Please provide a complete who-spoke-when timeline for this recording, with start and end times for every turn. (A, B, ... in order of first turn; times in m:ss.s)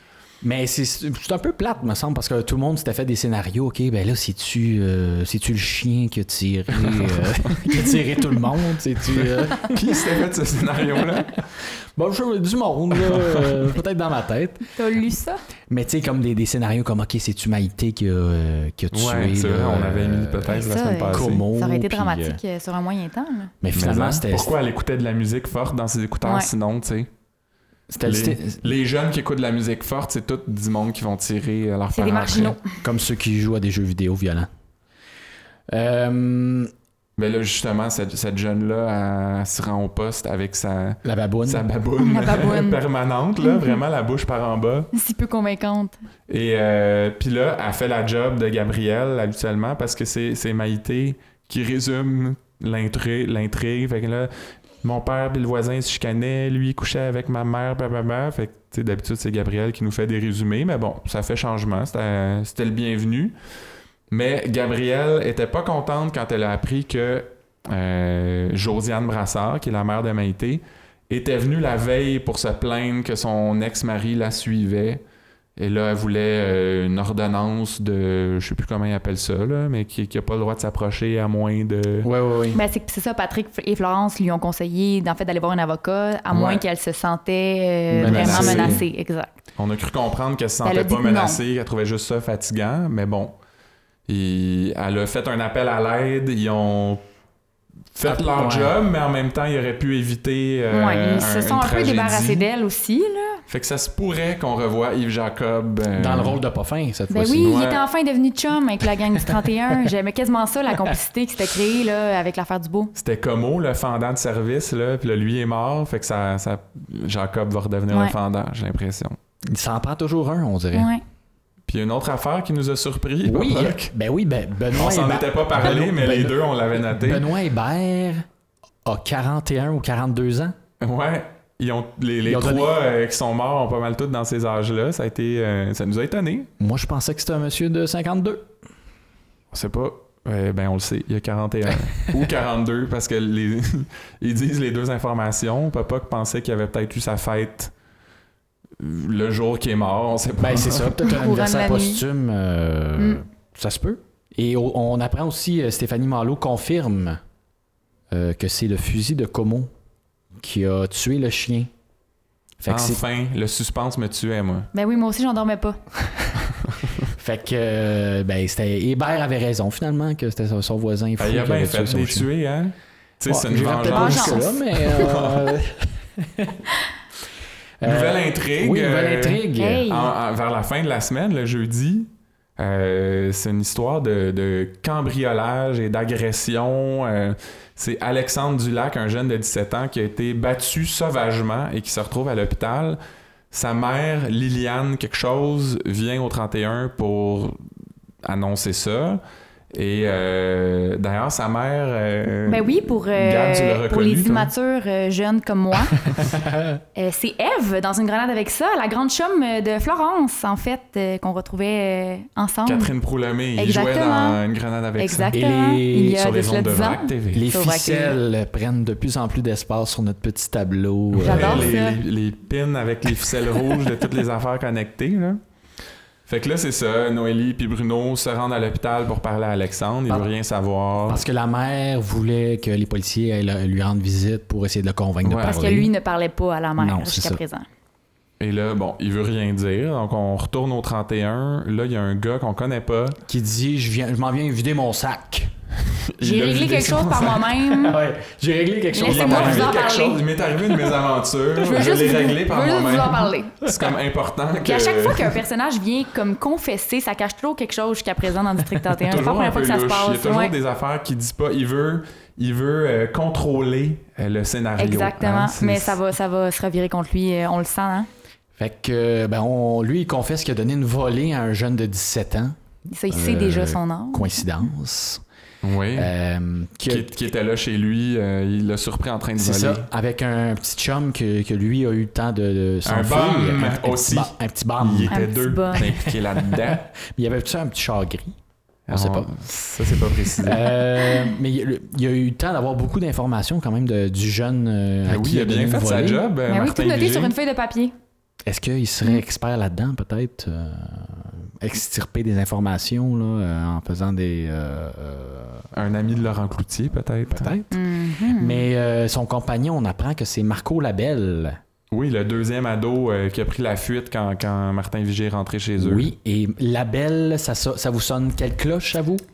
0:00.4-0:09.9 A
0:06.8-0:07.5 B
0:09.1-0:11.4 B
0:11.6-0:14.6 A
0:13.0-0:13.6 B
0:14.8-0:15.4 C
0:15.7-0:22.4 A
0:18.9-0:21.5 B
0:20.5-0:23.5 C
0:23.6-0:24.5 A
0:23.7-0:27.1 B
0:26.2-0:26.5 C
0:27.9-0:28.7 A
0:28.0-0:32.6 B
0:31.9-0:32.8 C
0:32.8-0:34.5 A
0:35.7-0:36.7 A
0:37.2-0:44.9 B
0:41.0-0:41.6 A
0:42.0-0:42.8 C
0:43.4-0:43.8 C
0:44.9-0:46.0 C
0:46.3-0:54.3 B
0:54.8-1:03.3 B
1:04.1-1:15.0 B
1:15.6-1:22.1 B
1:22.0-1:22.6 A
1:22.5-1:29.4 C
1:26.3-1:26.6 B
1:27.9-1:28.8 A
1:28.0-1:28.8 B
1:29.6-1:33.3 B
1:30.6-1:31.4 C
1:34.1-1:37.0 B
1:37.9-1:42.4 B
1:38.0-1:38.8 A
1:40.7-1:43.4 C
1:43.5-1:46.4 B
1:46.0-1:47.5 A
1:47.1-1:52.9 C
1:47.4-1:47.8 B
1:49.2-1:49.9 A
1:53.0-1:59.2 B
1:59.5-2:00.9 A
2:00.7-2:01.0 C
2:01.7-2:03.9 B
2:03.2-2:08.2 A
2:04.7-2:07.2 B
2:08.8-2:10.5 A
2:10.8-2:16.5 B
2:12.2-2:12.7 A
2:16.6-2:18.5 A
2:19.5-2:27.7 B
2:28.8-2:31.0 B
2:30.4-2:37.2 A
2:31.0-2:32.0 C
2:38.1-2:39.7 A
2:40.4-2:41.7 A
2:42.6-2:43.0 A
2:42.7-2:44.7 B
2:44.7-2:45.8 C
2:46.6-2:47.1 B
2:47.2-2:52.3 A
2:51.2-2:55.4 B
2:53.3-2:56.6 A
2:53.7-2:55.0 C
2:57.8-2:59.9 A
2:57.8-3:13.0 B
2:59.6-3:00.1 C
3:13.5-3:17.6 B
3:18.2-3:19.2 B
3:19.7-3:24.5 B
3:22.5-3:26.1 C
3:26.2-3:26.8 A
3:27.0-3:32.9 C
3:32.6-3:35.4 B
3:33.6-3:34.4 C
3:35.0-3:38.2 C
3:35.3-3:36.3 A
3:36.1-3:37.4 B
3:37.3-3:41.7 A
3:41.2-3:42.0 C
3:41.2-3:45.4 B
3:46.3-3:51.2 B
3:51.1-3:55.9 A
3:55.2-3:55.6 B
3:55.4-3:57.6 C
3:56.8-3:57.4 A
3:58.4-4:03.2 B
4:03.2-4:05.5 A
4:06.0-4:07.7 B
4:06.2-4:08.0 C
4:07.8-4:09.8 A
4:08.9-4:10.2 C
4:09.0-4:15.4 B
4:11.6-4:13.7 C
4:14.6-4:20.5 C
4:19.0-4:26.0 B
4:24.8-4:28.1 C
4:28.6-4:32.6 A
4:32.9-4:34.4 C
4:33.1-4:35.2 A
4:35.6-4:36.1 B
4:35.9-4:37.1 A
4:36.8-4:39.9 B
4:39.4-4:45.2 A
4:42.8-4:46.8 B
4:45.1-4:46.1 C
4:45.7-4:48.4 A
4:48.9-4:50.8 B
4:48.9-4:49.3 A
4:49.9-4:56.3 A
4:55.1-4:57.3 B
4:56.5-4:57.9 C
4:58.4-5:05.7 A
5:05.7-5:07.5 B
5:07.3-5:07.8 A
5:07.7-5:08.6 C
5:08.3-5:11.6 A
5:11.9-5:16.1 B
5:15.8-5:19.2 A